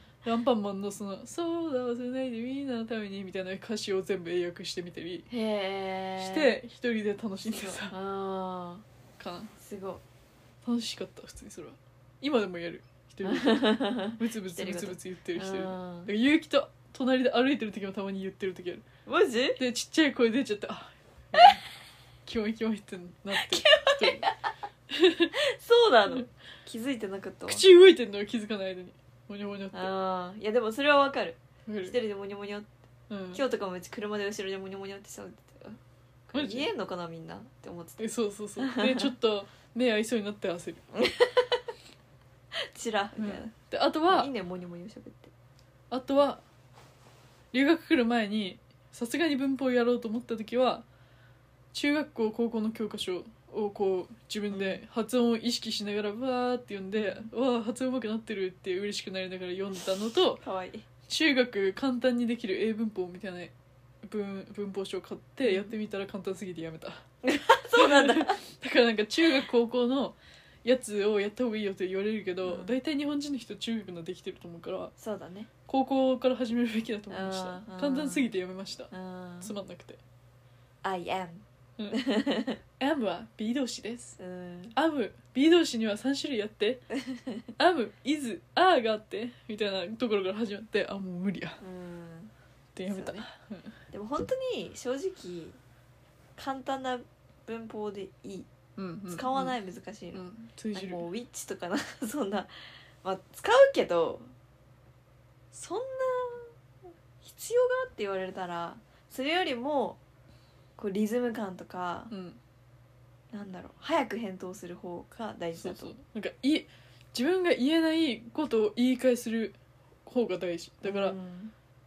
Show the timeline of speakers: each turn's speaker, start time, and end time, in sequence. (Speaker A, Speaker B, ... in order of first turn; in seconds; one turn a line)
Speaker A: 0.2-5.3
Speaker B: 5.3-6.5
Speaker A: 6.2-7.9
Speaker B: 7.4-8.8
Speaker A: 9.2-9.5
Speaker B: 9.6-10.0
Speaker A: 10.6-18.8
Speaker B: 13.2-16.1
Speaker B: 19.1-19.6
Speaker A: 19.6-21.6
Speaker A: 22.2-24.2
Speaker B: 23.3-24.5
Speaker A: 24.9-25.3
Speaker B: 25.3-27.6
Speaker A: 27.5-29.9
Speaker B: 29.7-32.7
Speaker A: 31.7-32.0
Speaker A: 33.1-33.4
Speaker B: 33.3-39.1
Speaker A: 36.3-36.7
Speaker A: 38.0-40.8
Speaker B: 40.9-41.6
Speaker B: 42.6-43.5
Speaker A: 43.2-44.3
Speaker B: 44.1-45.3
Speaker A: 45.9-46.4
Speaker A: 47.5-50.9
Speaker A: 51.7-60.4
Speaker B: 54.5-54.8
Speaker B: 56.9-57.3
Speaker B: 60.4-60.8
Speaker A: 61.1-67.1
Speaker B: 65.4-65.7
Speaker B: 67.2-68.4
Speaker A: 67.7-74.9
Speaker B: 72.4-72.8
Speaker B: 75.0-75.5
Speaker A: 75.7-78.9
Speaker B: 77.1-78.3
Speaker B: 78.9-79.5
Speaker A: 79.4-80.0
Speaker B: 80.8-82.6
Speaker A: 82.8-84.2
Speaker B: 84.2-84.8
Speaker A: 84.7-86.8
Speaker B: 86.9-87.5
Speaker A: 87.6-91.6
Speaker B: 91.6-92.3
Speaker A: 92.8-93.7
Speaker B: 92.8-93.2
Speaker B: 93.9-95.6
Speaker B: 96.4-98.5
Speaker A: 98.8-99.5
Speaker B: 99.1-104.3
Speaker A: 100.1-101.0
Speaker B: 105.5-106.5
Speaker B: 107.2-110.0
Speaker B: 110.8-112.1
Speaker A: 112.1-112.4
Speaker B: 113.3-115.9
Speaker A: 115.5-121.2
Speaker B: 120.8-121.5